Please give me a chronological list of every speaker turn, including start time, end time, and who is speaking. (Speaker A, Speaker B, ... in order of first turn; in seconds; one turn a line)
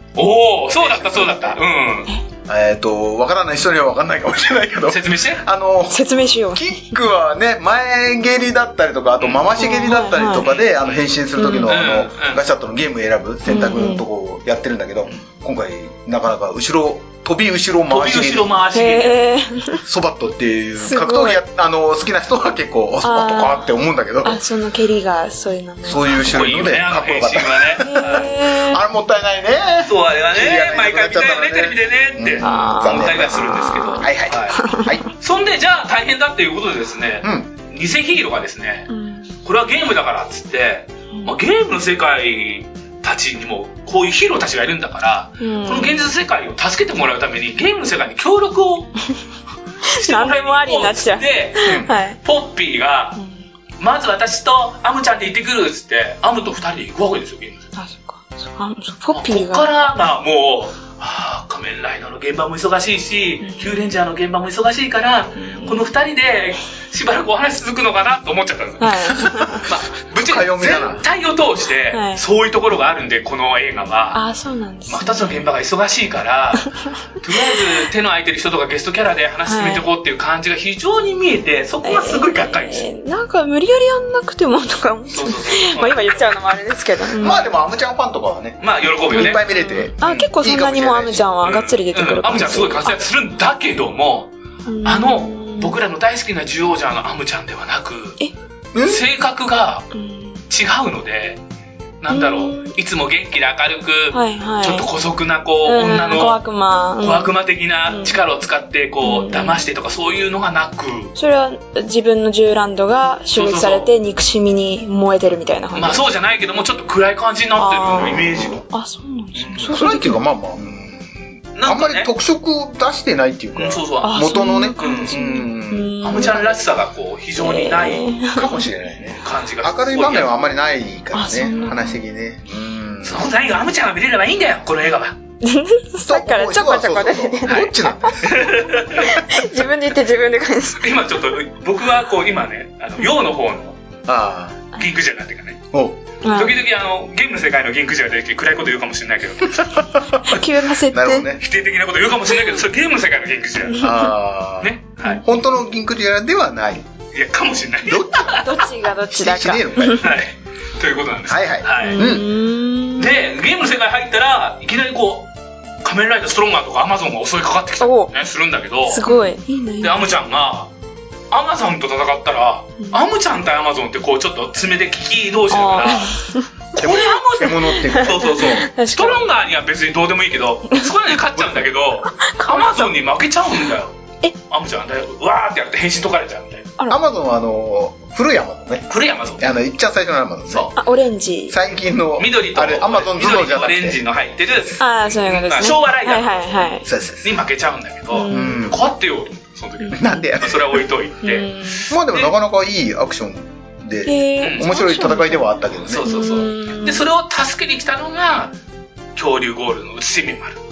Speaker A: 0.1-2.1
Speaker B: 0.8-1.6
Speaker B: 2.5-18.5
Speaker A: 4.9-5.4
Speaker C: 5.9-6.9
Speaker A: 9.2-9.6
Speaker C: 9.6-10.5
Speaker A: 10.4-11.0
Speaker C: 11.4-11.7
Speaker A: 11.7-12.4
Speaker C: 13.5-14.0
Speaker A: 17.9-19.2
Speaker C: 18.7-19.8
Speaker B: 19.9-24.4
Speaker C: 20.8-21.4
Speaker C: 23.0-23.7
Speaker C: 24.2-26.3
Speaker B: 25.8-33.4
Speaker A: 26.2-28.2
Speaker C: 27.8-28.8
Speaker A: 29.9-38.9
Speaker C: 32.4-34.9
Speaker B: 34.0-35.0
Speaker B: 37.2-37.5
Speaker C: 38.9-39.3
Speaker A: 39.4-49.0
Speaker C: 45.4-46.1
Speaker C: 49.8-52.2
Speaker A: 50.0-53.2
Speaker C: 53.1-53.4
Speaker A: 53.8-57.7
Speaker C: 57.8-59.7
Speaker A: 59.1-74.2
Speaker C: 63.4-63.8
Speaker C: 65.3-65.8
Speaker C: 68.8-69.7
Speaker B: 70.2-71.0
Speaker C: 71.9-72.2
Speaker C: 74.1-75.5
Speaker A: 74.9-82.8
Speaker C: 79.5-79.8
Speaker C: 81.8-87.5
Speaker A: 85.1-86.4
Speaker B: 87.2-91.2
Speaker A: 88.6-89.4
Speaker C: 89.1-93.0
Speaker A: 91.4-94.3
Speaker C: 94.7-95.8
Speaker A: 94.8-98.2
Speaker B: 98.8-99.0
Speaker A: 98.8-99.9
Speaker C: 99.9-100.4
Speaker A: 100.5-101.4
Speaker A: 102.0-106.4
Speaker C: 102.1-102.7
Speaker C: 104.1-104.9
Speaker C: 105.6-107.3
Speaker A: 107.0-111.1
Speaker C: 107.9-108.2
Speaker C: 109.0-109.6
Speaker C: 111.2-116.0
Speaker A: 113.3-113.9
Speaker A: 115.7-118.6
Speaker C: 117.6-120.2
Speaker A: 119.3-119.8
Speaker B: 119.7-126.4
Speaker A: 121.5-122.1
Speaker A: 123.5-125.2
Speaker C: 124.0-126.5
Speaker A: 126.0-128.6
Speaker C: 127.4-128.7
Speaker B: 128.4-133.3
Speaker A: 129.2-130.4
Speaker C: 131.1-132.0
Speaker A: 133.0-135.2
Speaker C: 135.4-138.2
Speaker B: 136.1-139.2
Speaker A: 137.5-139.1
Speaker C: 139.0-140.9
Speaker A: 140.8-143.8
Speaker B: 144.1-144.6
Speaker A: 144.7-145.6
Speaker B: 145.7-146.0
Speaker C: 146.2-146.6
Speaker A: 146.3-149.9
Speaker B: 149.9-150.3
Speaker C: 150.2-151.3
Speaker B: 150.9-151.4
Speaker A: 151.4-153.9
Speaker B: 153.8-156.9
Speaker A: 154.6-155.2
Speaker A: 157.1-158.6
Speaker B: 157.8-158.4
Speaker C: 158.4-160.1
Speaker B: 159.1-160.1
Speaker A: 159.9-162.1
Speaker B: 161.3-162.3
Speaker C: 161.8-163.2
Speaker A: 163.0-165.3
Speaker A: 165.8-169.1
Speaker C: 167.8-168.1
Speaker C: 168.9-170.1
Speaker A: 169.8-170.7
Speaker A: 171.3-176.1
Speaker C: 175.5-176.5
Speaker A: 176.7-183.9
Speaker B: 176.8-178.5
Speaker C: 177.7-179.3
Speaker C: 182.1-182.9
Speaker A: 184.5-186.7
Speaker B: 186.9-190.7
Speaker A: 188.9-189.5
Speaker A: 190.5-190.8
Speaker C: 190.8-191.6
Speaker B: 191.5-194.0
Speaker A: 192.2-196.4
Speaker C: 194.8-196.9
Speaker B: 196.8-197.3
Speaker A: 197.2-202.3
Speaker C: 198.1-198.7
Speaker B: 198.3-198.8
Speaker C: 199.8-200.2
Speaker B: 200.0-200.8
Speaker C: 201.2-201.9
Speaker B: 201.9-206.1
Speaker C: 204.0-207.0
Speaker A: 204.4-204.7
Speaker A: 205.8-208.6
Speaker A: 209.2-210.6